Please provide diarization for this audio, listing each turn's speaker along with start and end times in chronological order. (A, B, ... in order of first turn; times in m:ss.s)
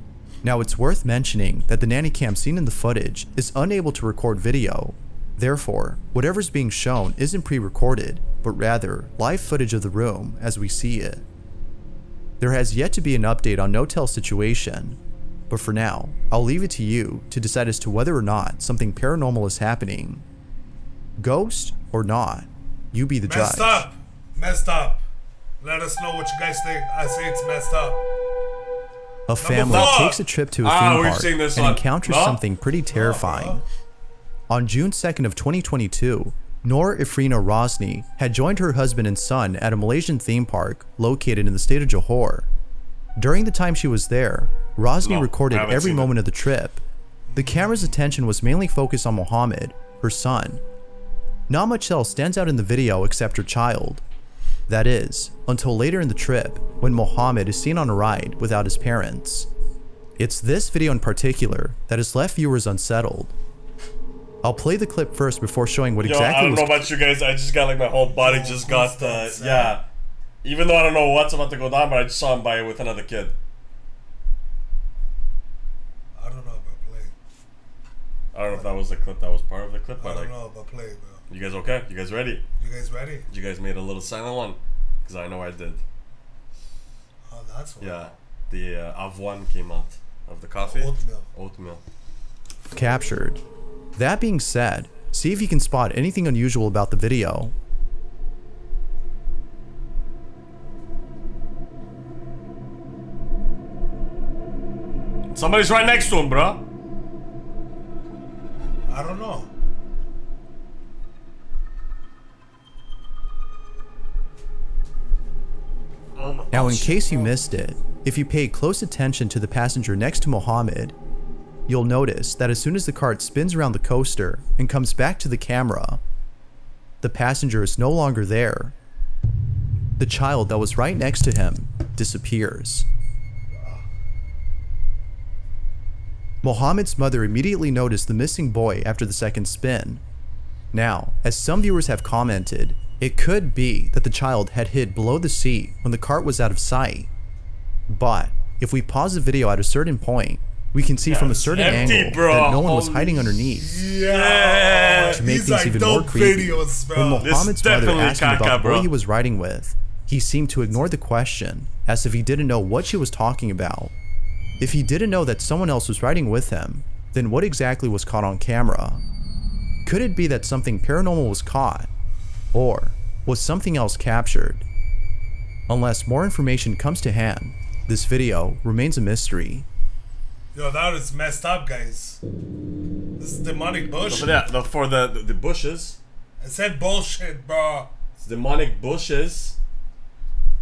0:00.4-0:11.2 A
0:12.4-0:15.0 A
0:15.5-0:20.2 A
0:21.2-0:23.8 A
0:23.2-0:25.0 B
0:25.6-0:28.0 B
0:29.3-0:33.6 A
0:29.4-0:30.2 B
0:29.6-0:30.1 C
0:30.6-0:32.4 C
0:32.9-0:33.6 B
0:34.5-0:42.5 A
0:43.2-0:46.8 A
0:45.0-0:46.2 C
0:47.3-0:47.9 B
0:47.4-0:50.6 A
0:51.5-0:54.0 A
0:54.7-0:59.5 A
1:00.2-1:03.4 A
1:04.4-1:06.9 A
1:06.0-1:09.8 C
1:08.0-1:09.8 B
1:10.4-1:13.4 C
1:16.2-1:17.1 B
1:18.3-1:20.3 C
1:20.0-1:21.2 B
1:21.3-1:22.4 C
1:22.6-1:23.3 B
1:23.3-1:25.8 C
1:27.3-1:28.1 B
1:27.8-1:31.8 C
1:30.6-1:31.3 B
1:32.7-1:33.4 A
1:34.0-1:37.5 A
1:45.3-1:46.6 C
1:48.9-1:49.5 B
1:56.2-1:57.4 C
1:56.5-2:01.0 A
2:01.7-2:06.0 A
2:07.0-2:08.8 A
2:10.0-2:12.9 A
2:13.6-2:13.9 B
2:16.4-2:20.0 A
2:20.7-2:27.1 A
2:27.9-2:33.8 A
2:31.0-2:35.2 C
2:31.2-2:32.5 B
2:33.6-2:37.3 B
2:35.2-2:43.9 A
2:37.2-2:38.9 C
2:44.6-2:49.0 A
2:49.8-2:51.9 A
2:52.5-2:54.6 A
2:55.7-2:59.7 A
3:00.5-3:02.2 B
3:03.2-3:04.4 B
3:04.1-3:06.0 C
3:06.4-3:07.9 B
3:08.2-3:09.6 C